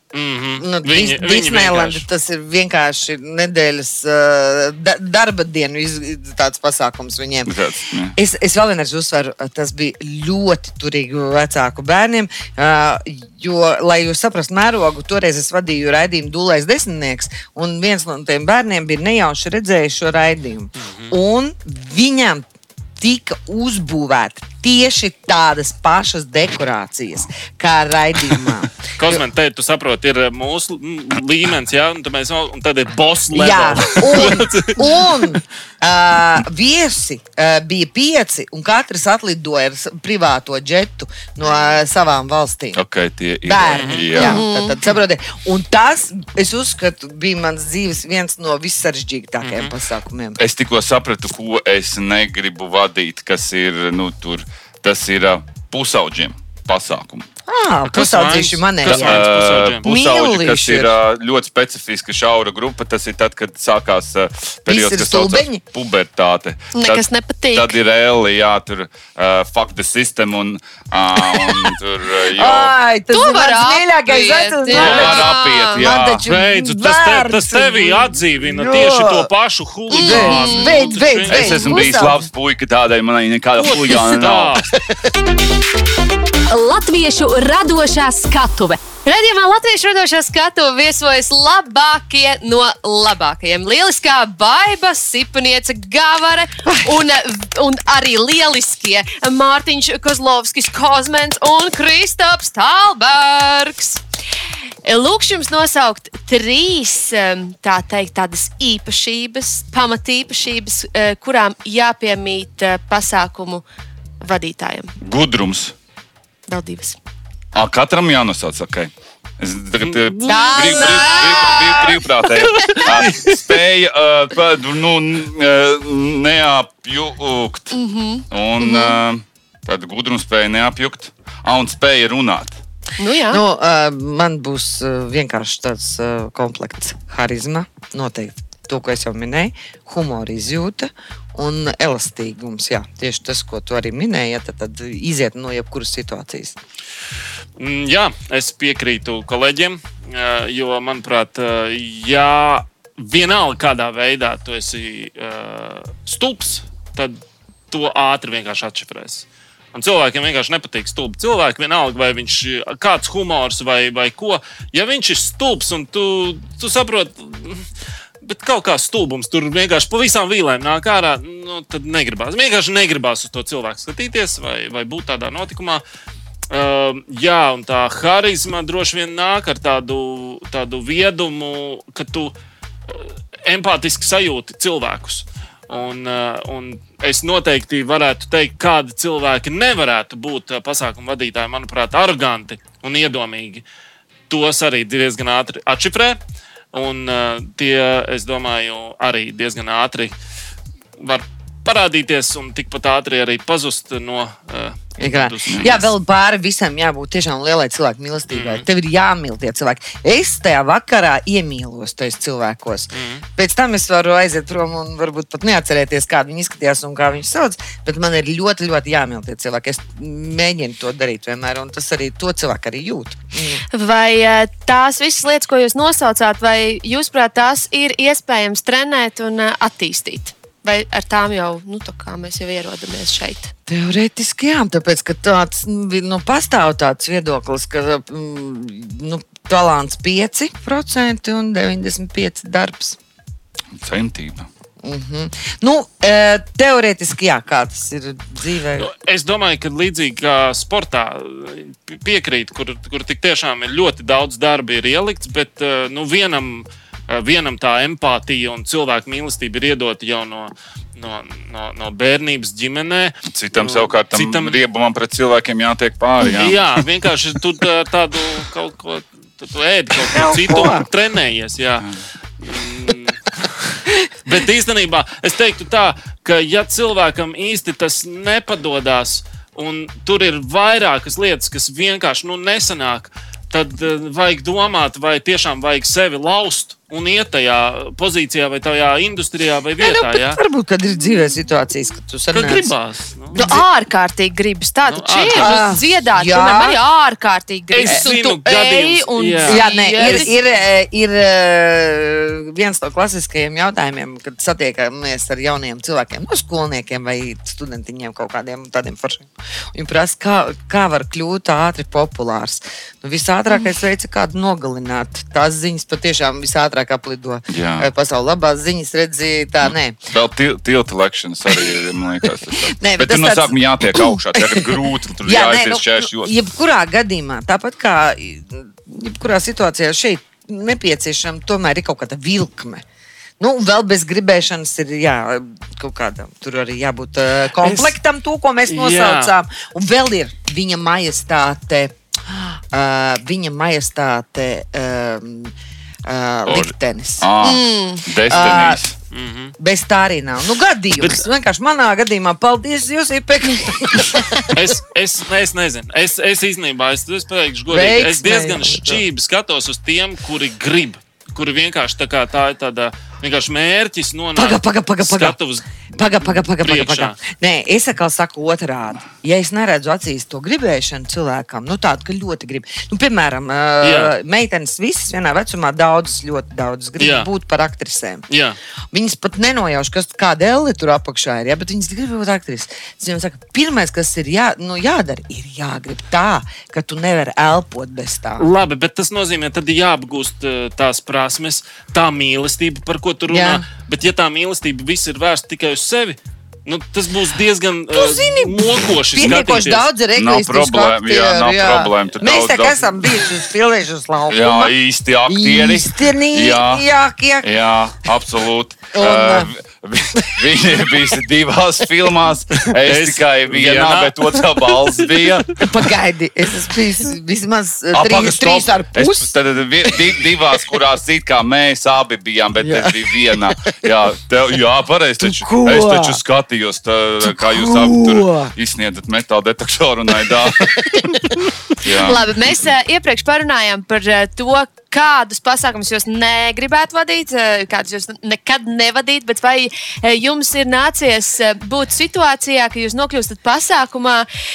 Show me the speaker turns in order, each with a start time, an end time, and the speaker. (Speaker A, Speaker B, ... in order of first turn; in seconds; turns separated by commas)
Speaker A: 0.1-2.0, Speaker B: 0.6-7.5, Speaker C: 7.4-8.1, Speaker B: 8.1-22.4, Speaker A: 20.8-21.1, Speaker B: 23.0-29.2, Speaker A: 29.0-34.9, Speaker B: 33.3-42.8, Speaker C: 42.7-44.4, Speaker B: 43.4-50.4, Speaker A: 43.7-44.1, Speaker D: 44.1-44.8, Speaker A: 49.4-49.7, Speaker C: 50.4-57.3, Speaker B: 57.5-59.3, Speaker A: 57.9-59.9, Speaker C: 58.8-72.7, Speaker B: 59.8-60.9, Speaker B: 64.7-65.6, Speaker D: 66.7-67.7, Speaker B: 72.3-79.3, Speaker D: 73.1-75.9, Speaker C: 74.7-76.2, Speaker A: 74.7-75.2, Speaker A: 76.2-81.8, Speaker D: 79.9-80.8, Speaker B: 79.9-82.3, Speaker C: 81.3-84.7, Speaker A: 83.6-84.7, Speaker E: 86.5-88.9, Speaker D: 89.0-104.0, Speaker D: 104.8-113.6, Speaker D: 114.2-114.9, Speaker C: 115.0-115.7, Speaker D: 116.5-117.0, Speaker C: 117.5-127.8, Speaker A: 119.8-121.2, Speaker D: 120.2-122.8, Speaker A: 122.5-123.3, Speaker D: 127.7-129.0, Speaker C: 128.3-132.6, Speaker D: 133.0-133.4, Speaker B: 133.3-146.6, Speaker A: 147.6-167.7, Speaker A: 168.2-175.8, Speaker A: 176.5-182.3, Speaker A: 182.9-193.6, Speaker A: 194.3-196.2, Speaker A: 196.7-200.1, Speaker A: 201.0-205.9, Speaker B: 205.0-223.6, Speaker A: 208.3-208.6, Speaker A: 212.9-213.2, Speaker D: 223.7-233.5, Speaker B: 233.7-243.0, Speaker C: 243.8-244.5, Speaker B: 244.8-248.9, Speaker A: 248.8-264.6, Speaker C: 263.3-266.6, Speaker A: 266.3-271.9, Speaker B: 270.1-270.9, Speaker A: 272.4-273.2, Speaker A: 274.2-290.4, Speaker B: 289.8-292.7, Speaker A: 292.3-293.5, Speaker B: 293.3-293.6, Speaker D: 293.3-300.3, Speaker A: 294.9-295.7, Speaker B: 295.3-296.8, Speaker A: 297.7-300.3, Speaker B: 299.4-320.0, Speaker C: 317.5-317.9, Speaker C: 319.6-326.4, Speaker B: 322.5-332.8, Speaker B: 333.4-345.5, Speaker A: 337.6-337.9, Speaker A: 338.6-339.3, Speaker B: 346.0-347.3, Speaker C: 346.5-348.9, Speaker D: 347.4-348.0, Speaker B: 348.2-348.8, Speaker A: 349.1-349.5, Speaker B: 349.6-354.5, Speaker A: 354.5-365.7, Speaker B: 357.7-359.0, Speaker B: 364.4-365.4, Speaker B: 365.9-378.2, Speaker A: 366.3-367.2, Speaker A: 373.8-374.1, Speaker A: 377.0-377.3, Speaker A: 378.3-378.6, Speaker B: 378.9-388.5, Speaker A: 388.4-399.9, Speaker B: 393.3-393.6, Speaker B: 397.9-404.7, Speaker C: 400.1-403.1, Speaker C: 404.3-406.9, Speaker B: 405.2-407.5, Speaker C: 407.4-415.7, Speaker B: 408.9-409.5, Speaker B: 410.1-411.0, Speaker A: 412.6-415.3, Speaker B: 415.6-419.3, Speaker C: 417.9-432.6, Speaker B: 422.6-423.8, Speaker B: 425.2-426.2, Speaker B: 427.2-428.5, Speaker B: 430.7-431.4, Speaker D: 432.0-444.3